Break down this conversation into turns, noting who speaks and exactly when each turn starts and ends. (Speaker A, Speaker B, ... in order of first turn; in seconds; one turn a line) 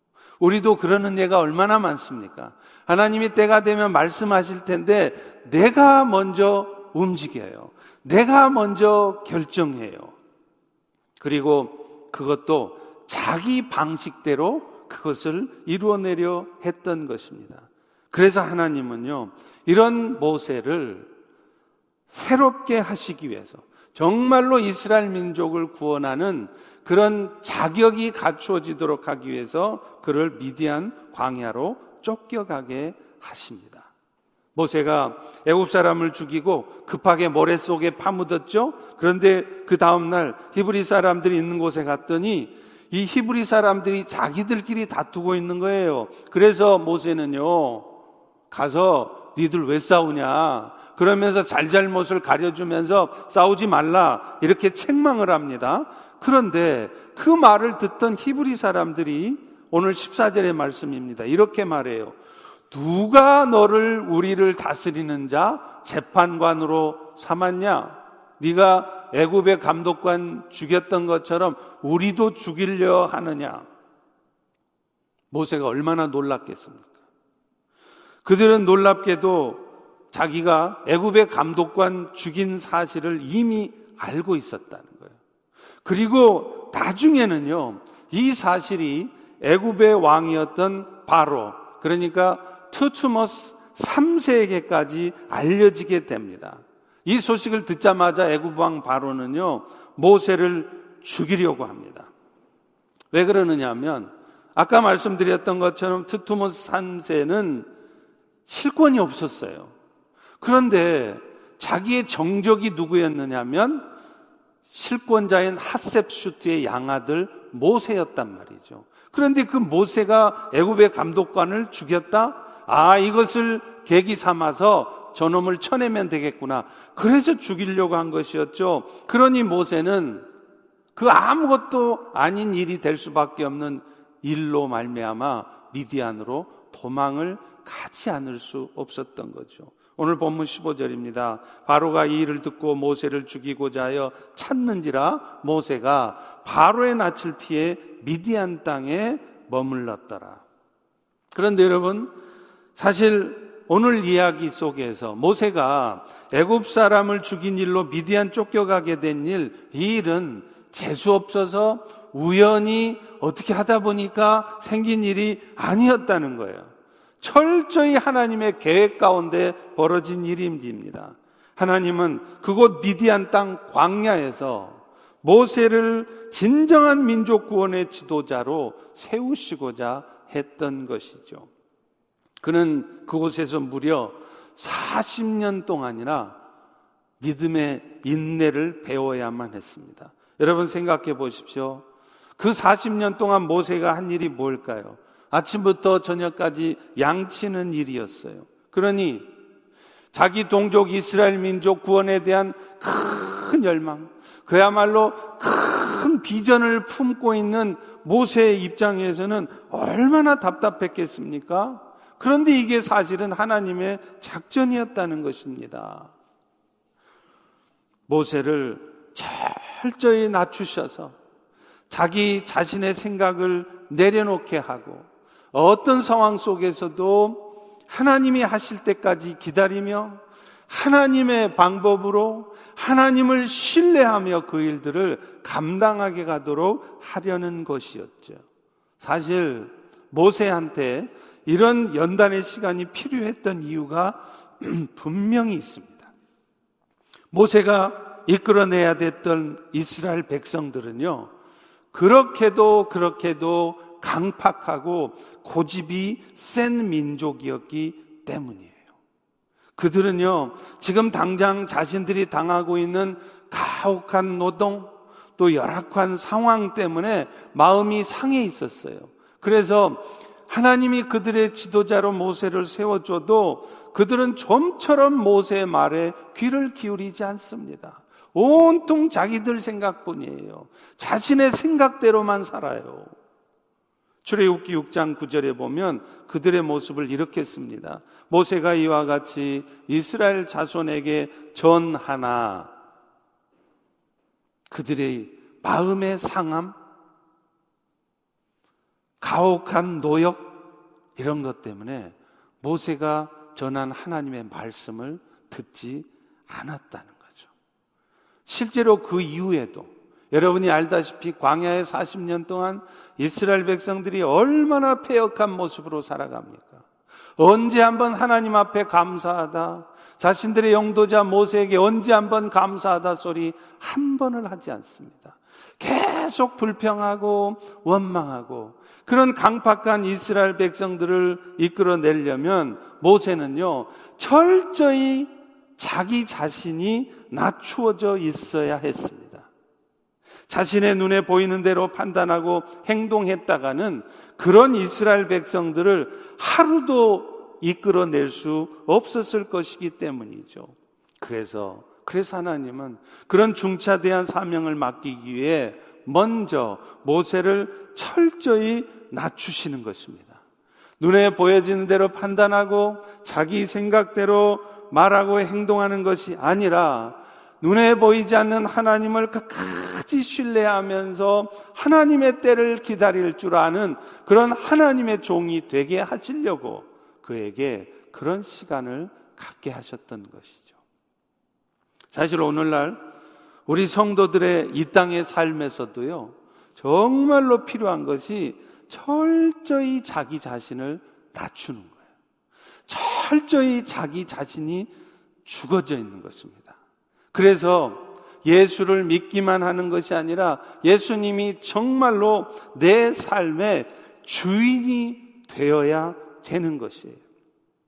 Speaker A: 0.4-10.2
Speaker A: 11.2-21.1
Speaker A: 22.1-33.9
Speaker A: 34.5-47.9
Speaker A: 48.5-62.2
Speaker A: 62.7-73.7
Speaker A: 75.3-76.9
Speaker A: 78.2-85.2
Speaker A: 85.8-102.1
Speaker A: 103.1-107.7
Speaker A: 108.5-109.7
Speaker A: 110.4-113.9
Speaker A: 114.7-130.3
Speaker A: 130.9-150.4
Speaker A: 151.3-152.1
Speaker A: 152.8-181.5
Speaker A: 182.4-186.4
Speaker A: 187.2-191.8
Speaker A: 192.4-199.3
Speaker A: 200.1-216.1
Speaker A: 218.1-221.2
Speaker A: 221.9-238.4
Speaker A: 239.0-246.1
Speaker A: 247.3-251.3
Speaker A: 251.9-258.8
Speaker A: 259.8-283.1
Speaker A: 284.2-292.7
Speaker A: 294.7-296.8
Speaker A: 299.2-300.6
Speaker A: 301.2-307.5
Speaker A: 308.5-316.9
Speaker A: 317.4-339.5
Speaker A: 340.5-360.4
Speaker A: 361.0-380.7
Speaker A: 382.1-383.0
Speaker A: 383.7-392.0
Speaker A: 392.9-394.9
Speaker A: 395.4-396.8
Speaker A: 397.3-407.2